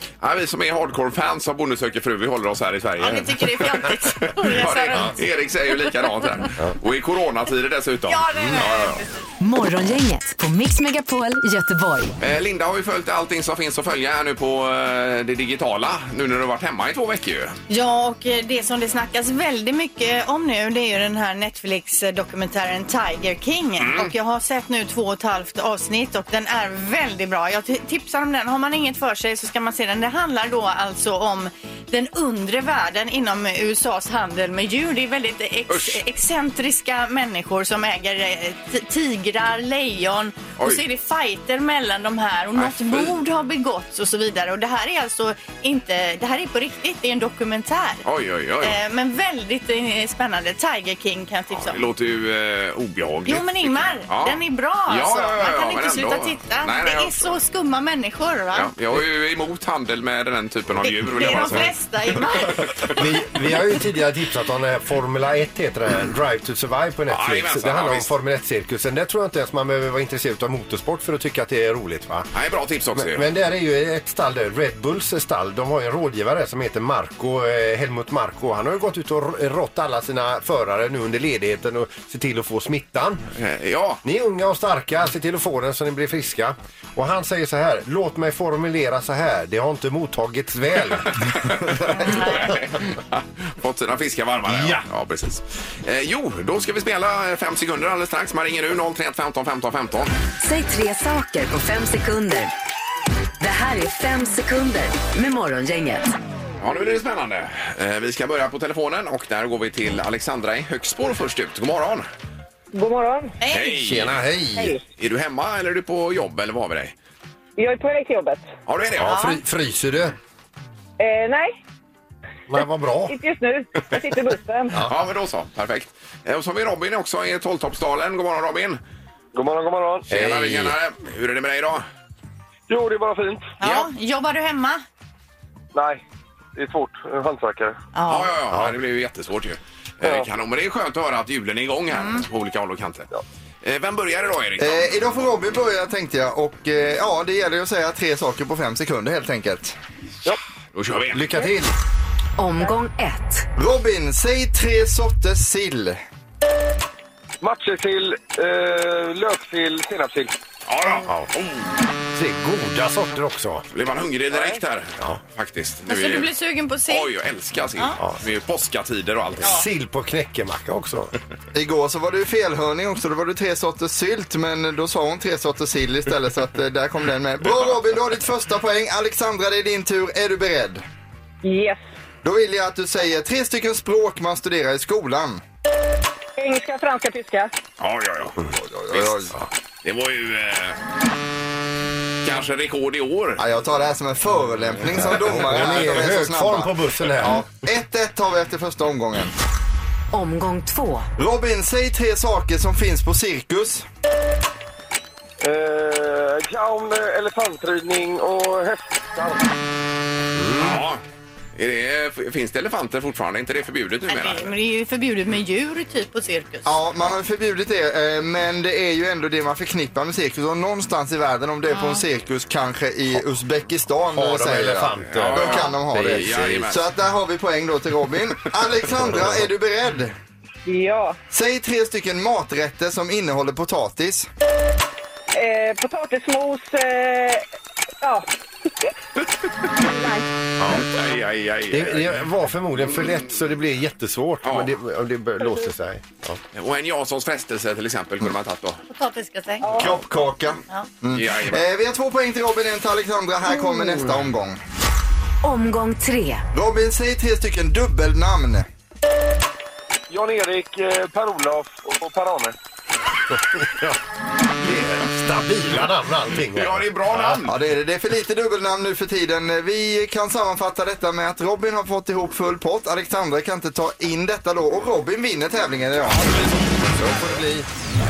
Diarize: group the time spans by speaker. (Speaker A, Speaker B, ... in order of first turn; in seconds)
Speaker A: 0.2-9.0, 12.2-17.6, 23.8-24.1, 35.7-36.0, 42.6-43.1, 48.0-48.8, 51.5-57.4, 58.5-62.9, 67.1-68.1, 72.3-73.3, 83.3-84.0, 91.1-100.1, 106.6-112.1, 113.5-114.2, 115.0-116.9, 118.7-119.3, 124.8-128.8, 130.1-131.8, 133.6-133.9, 138.1-143.1, 143.6-144.9, 150.7-151.5, 160.7-161.7, 163.7-166.3, 166.8-169.6, 187.8-188.4, 188.9-190.8, 192.2-193.4, 210.6-211.0, 211.6-214.5, 225.1-226.8, 240.7-242.3, 242.8-243.4, 244.4-244.7, 246.5-248.8, 251.1-251.6, 266.5-267.5
Speaker B: 3.0-5.2, 8.1-9.1, 17.7-48.0, 48.6-51.8, 53.3-58.7, 60.8-63.0, 92.0-92.3, 113.4-113.8, 119.0-119.4, 133.6-134.8, 137.9-138.3, 141.9-142.2, 165.9-167.1, 214.1-216.7, 221.7-222.0, 248.9-249.8
Speaker C: 9.4-12.2, 100.4-102.5, 103.4-106.1, 152.4-153.4, 200.1-201.1, 255.4-256.4
Speaker D: 61.4-61.7, 62.8-72.3, 72.9-83.2, 84.0-92.4, 94.4-94.8, 113.8-114.8, 119.0-120.1, 122.5-123.1, 130.1-130.7, 138.5-138.8, 151.1-151.8, 162.1-163.6, 169.4-171.1, 194.9-197.5, 210.4-210.8, 224.1-226.7, 229.1-229.3, 240.6-240.9, 241.7-246.4, 263.5-264.0, 264.6-267.4, 276.9-277.6
Speaker E: 112.7-113.4, 117.6-118.5, 121.0-121.6, 122.6-124.8, 181.4-181.8, 186.4-187.5, 230.6-231.2, 235.3-237.4, 238.0-238.3, 239.8-240.3, 249.6-250.0
Speaker F: 129.3-130.1, 132.7-133.5, 135.7-136.0, 136.6-137.8, 140.0-140.3, 157.4-160.3, 205.4-209.5, 260.1-262.5
Speaker G: 144.6-149.8, 153.6-156.0, 171.5-180.8, 182.2-185.4, 188.5-189.3, 193.4-199.3, 201.2-203.8, 216.7-230.1, 231.3-234.3, 249.7-254.6, 256.5-258.6, 267.5-276.4